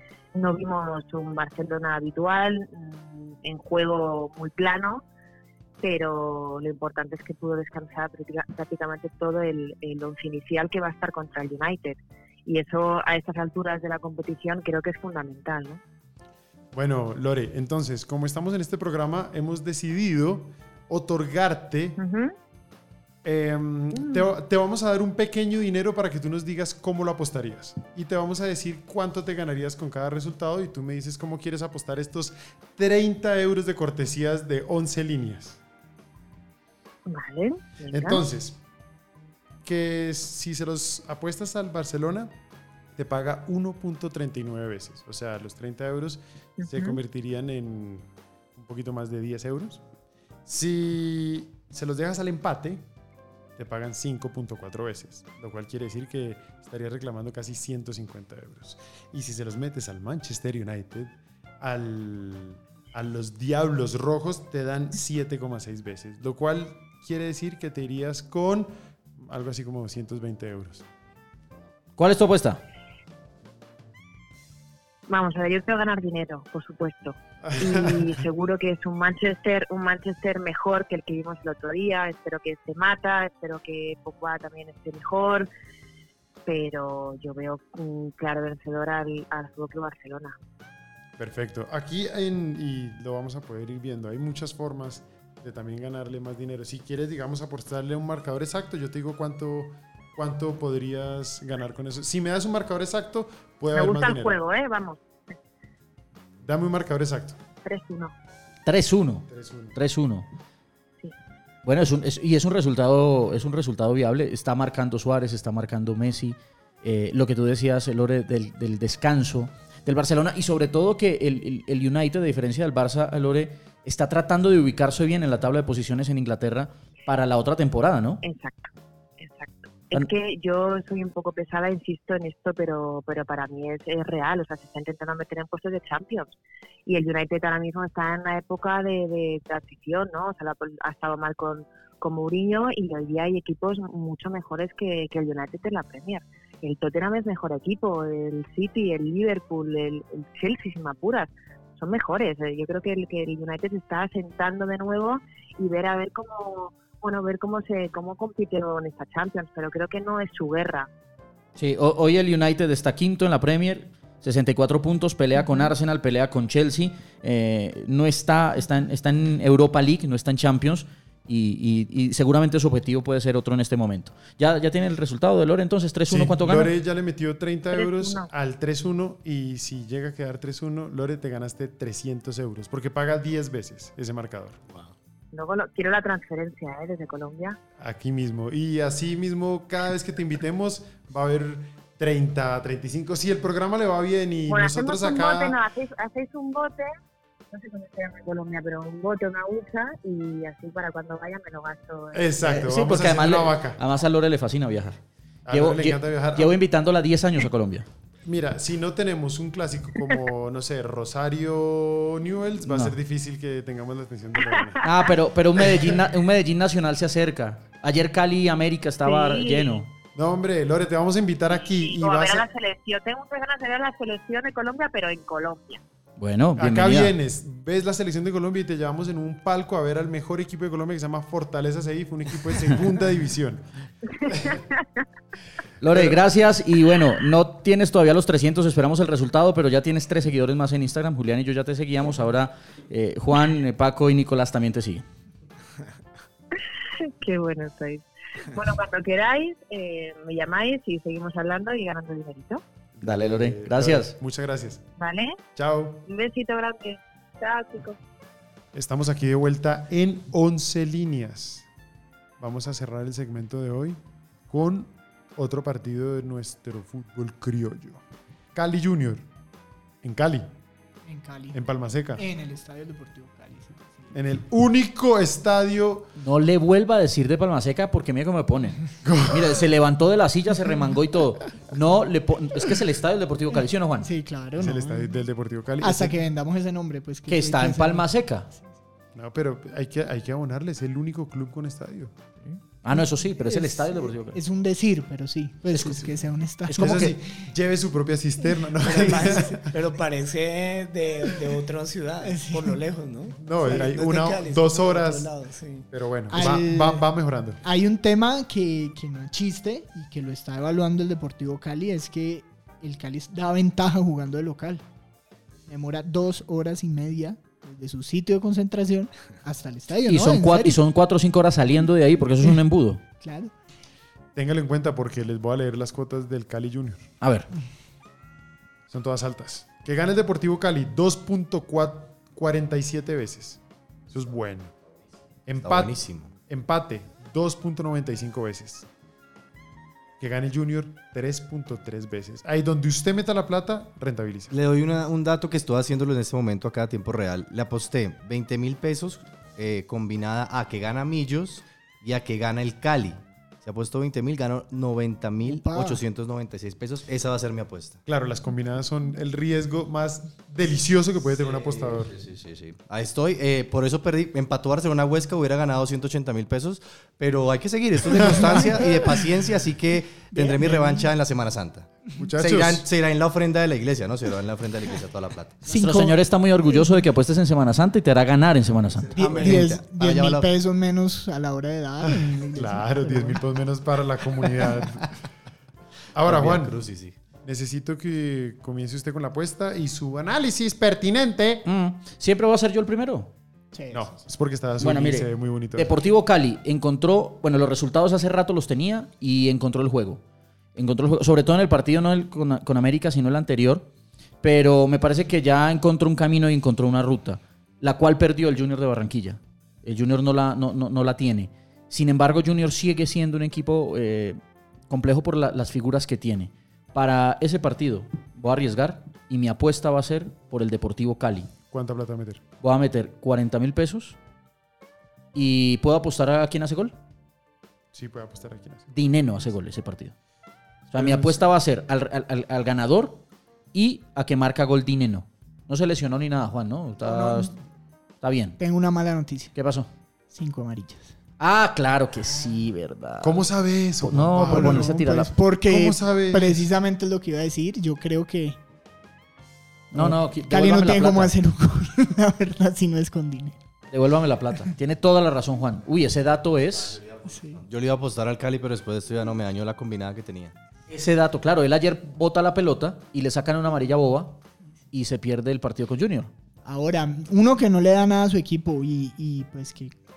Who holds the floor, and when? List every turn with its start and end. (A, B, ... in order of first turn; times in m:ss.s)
0:00.3-0:05.0 A
0:05.8-0:15.8 A
0:16.7-0:22.0 B
0:22.0-0:22.3 A
0:23.2-0:35.6 B
0:23.9-0:24.2 A
0:37.0-0:38.2 A
0:37.9-0:38.6 B
0:39.6-0:42.3 B
0:42.9-0:49.8 B
0:46.6-0:47.0 A
0:50.4-0:52.8 B
0:53.6-1:10.8 B
1:12.0-1:12.6 C
1:15.1-1:25.5 A
1:17.4-1:18.2 B
1:26.4-1:30.4 A
1:31.2-1:44.4 B
1:43.7-1:45.0 A
1:46.4-1:47.4 B
1:47.6-1:48.1 A
1:48.6-1:50.3 C
1:49.3-1:49.8 B
1:51.6-2:08.2 C
2:08.2-2:40.9 A
2:41.6-2:56.7 C
2:56.1-3:04.6 B
2:57.7-2:58.3 A
3:05.3-3:07.6 A
3:07.8-3:15.6 B
3:14.5-3:16.9 A
3:17.5-3:22.3 A
3:22.1-3:23.8 B
3:22.4-3:27.9 C
3:25.4-3:26.6 B
3:28.2-3:34.8 B
3:32.6-3:33.0 C
3:34.8-3:39.9 C
3:39.0-3:39.8 A
3:40.1-3:42.4 B
3:41.7-3:45.8 A
3:46.2-3:47.1 C
3:46.6-3:53.6 B
3:54.2-3:54.6 A
3:54.3-3:54.6 B
3:55.8-4:05.0 C
3:55.9-3:56.2 B
4:07.0-4:12.6 A
4:12.9-4:14.8 B
4:13.0-4:14.1 C
4:15.0-4:15.4 A
4:15.6-4:16.0 B
4:16.0-4:18.0 A
4:18.7-4:21.7 B
4:22.4-4:28.0 B
4:28.5-4:29.2 B
4:30.0-4:30.5 B
4:31.0-4:31.6 D
4:31.5-4:32.2 B
4:32.2-4:34.1 D
4:34.1-4:36.1 B
4:36.2-4:44.1 C
4:39.0-4:39.6 B
4:44.0-4:45.2 D
4:44.6-4:46.2 B
4:45.8-4:48.1 D
4:47.3-4:48.5 C
4:49.1-4:52.1 B
4:52.5-4:54.4 C
4:52.9-4:57.1 D
4:56.7-4:57.1 C
4:56.8-4:59.7 B
4:58.8-5:05.9 E
5:02.2-5:02.8 D
5:03.4-5:05.3 B
5:05.9-5:07.6 B
5:06.3-5:07.0 D
5:07.6-5:14.8 D
5:15.7-5:20.8 D
5:20.1-5:23.0 C
5:23.2-5:23.5 D
5:24.3-5:27.1 B
5:27.2-5:27.5 C
5:28.9-5:34.7 B
5:35.5-5:38.9 B
5:35.6-5:36.3 F
5:40.2-5:44.6 B
5:44.5-5:58.0 F
5:55.4-5:56.0 D
5:58.0-6:02.1 B
6:01.4-6:15.6 F
6:08.1-6:08.9 B
6:10.3-6:11.1 D
6:12.2-6:12.8 B
6:15.6-6:16.2 D
6:15.6-6:19.1 C
6:18.9-6:20.5 F
6:19.2-6:23.4 D
6:22.0-6:25.1 B
6:26.1-6:26.8 B
6:26.2-6:27.1 F
6:27.4-6:31.6 B
6:31.6-6:33.3 C
6:33.7-6:34.1 D
6:33.9-6:36.0 B
6:34.8-6:40.2 C
6:40.8-6:43.9 C
6:44.4-7:01.5 C
7:01.7-7:02.4 B
7:02.6-7:04.2 C
7:05.3-7:06.9 C
7:07.9-7:08.9 B
7:08.9-7:10.1 C
7:10.9-7:13.2 C
7:10.9-7:11.4 B
7:13.7-7:17.5 C
7:17.0-7:17.5 D
7:18.2-7:18.6 C
7:18.6-7:19.5 D
7:19.5-7:19.9 C
7:20.3-7:21.1 D
7:21.4-7:23.4 C
7:23.2-7:26.7 B
7:24.0-7:25.3 C
7:24.4-7:28.6 D
7:29.9-7:33.6 D
7:29.9-7:31.3 C
7:33.9-7:37.0 C
7:36.8-7:40.5 F
7:37.2-7:37.6 D
7:40.9-7:44.4 C
7:44.9-7:46.3 C
7:46.6-7:49.9 D